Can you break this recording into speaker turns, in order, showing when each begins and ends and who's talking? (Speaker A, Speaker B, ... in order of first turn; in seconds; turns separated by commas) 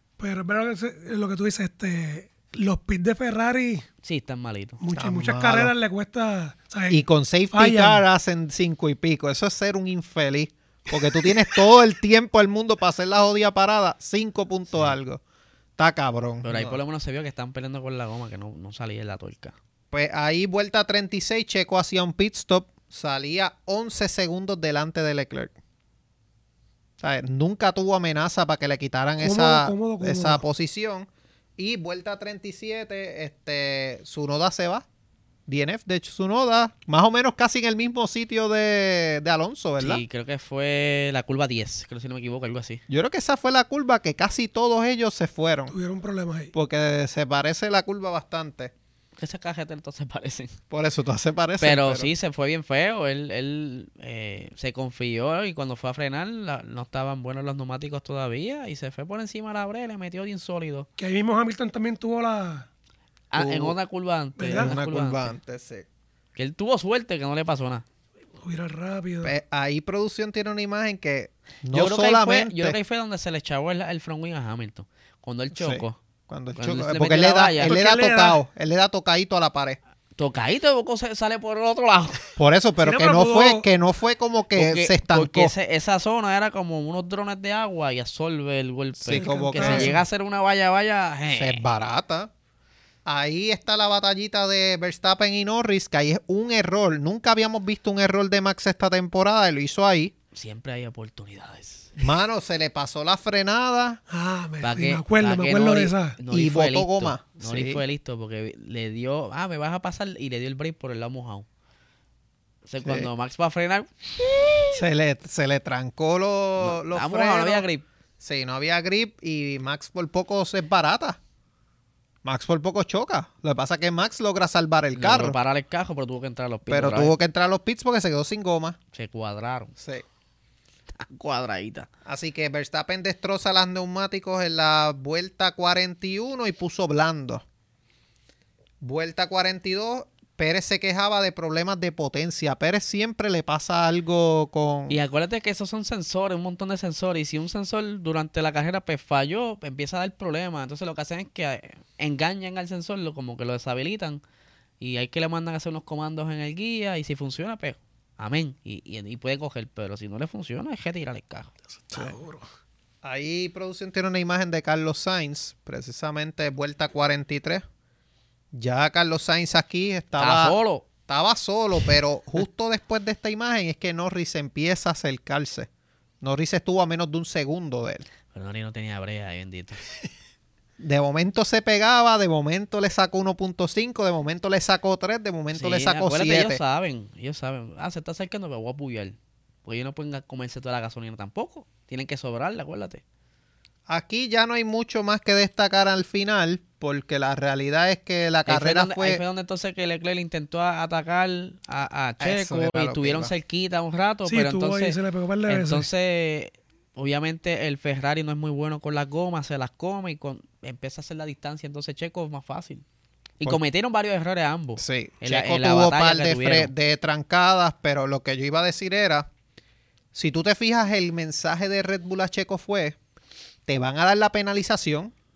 Speaker A: 0.2-3.8, Speaker B: 4.0-4.8, Speaker A: 4.8-7.0, Speaker C: 4.9-5.7, Speaker C: 6.9-15.2, Speaker A: 7.5-8.0, Speaker C: 15.8-16.8, Speaker B: 16.4-19.5, Speaker C: 19.9-25.5, Speaker C: 27.0-34.9, Speaker A: 29.2-30.4, Speaker C: 35.5-40.0, Speaker B: 39.8-42.8, Speaker C: 42.9-45.7, Speaker A: 45.7-46.5, Speaker C: 46.5-48.7, Speaker B: 49.2-50.6, Speaker C: 50.7-52.1, Speaker B: 51.6-60.9, Speaker A: 61.0-62.7, Speaker B: 63.3-65.3, Speaker C: 63.4-63.7, Speaker A: 64.4-64.7, Speaker C: 64.5-65.8, Speaker B: 66.3-67.8, Speaker A: 68.4-69.3, Speaker C: 69.2-72.8, Speaker B: 71.7-76.0, Speaker C: 75.5-79.8, Speaker B: 76.5-77.7, Speaker A: 77.6-78.4, Speaker B: 80.2-82.2, Speaker C: 82.4-85.5, Speaker A: 82.8-83.7, Speaker B: 84.5-91.6, Speaker C: 89.0-90.0, Speaker A: 89.1-90.0, Speaker C: 91.3-92.3, Speaker C: 93.0-100.1, Speaker B: 100.3-102.0, Speaker C: 102.0-104.0, Speaker A: 104.1-106.2, Speaker B: 104.6-111.5, Speaker C: 106.3-107.8, Speaker B: 112.7-114.7, Speaker C: 112.8-113.1, Speaker C: 114.7-117.7, Speaker B: 116.6-117.8, Speaker C: 118.2-121.2, Speaker C: 122.2-125.3, Speaker B: 125.0-127.2, Speaker C: 126.7-128.8, Speaker B: 128.9-129.7, Speaker C: 129.8-130.0, Speaker B: 131.0-131.9, Speaker C: 132.1-137.4, Speaker C: 138.8-145.0, Speaker B: 144.9-154.2, Speaker B: 154.8-161.5, Speaker A: 161.9-162.4, Speaker C: 163.0-167.6, Speaker C: 168.5-170.5, Speaker B: 170.2-170.8, Speaker C: 171.1-175.7, Speaker C: 176.2-178.1, Speaker B: 178.3-179.8, Speaker C: 180.8-186.6, Speaker B: 185.5-193.0, Speaker C: 193.9-199.2, Speaker B: 198.5-212.8, Speaker C: 202.2-203.3, Speaker A: 204.2-205.9, Speaker B: 213.4-216.7, Speaker C: 214.8-219.3, Speaker C: 220.1-223.0, Speaker C: 223.7-225.1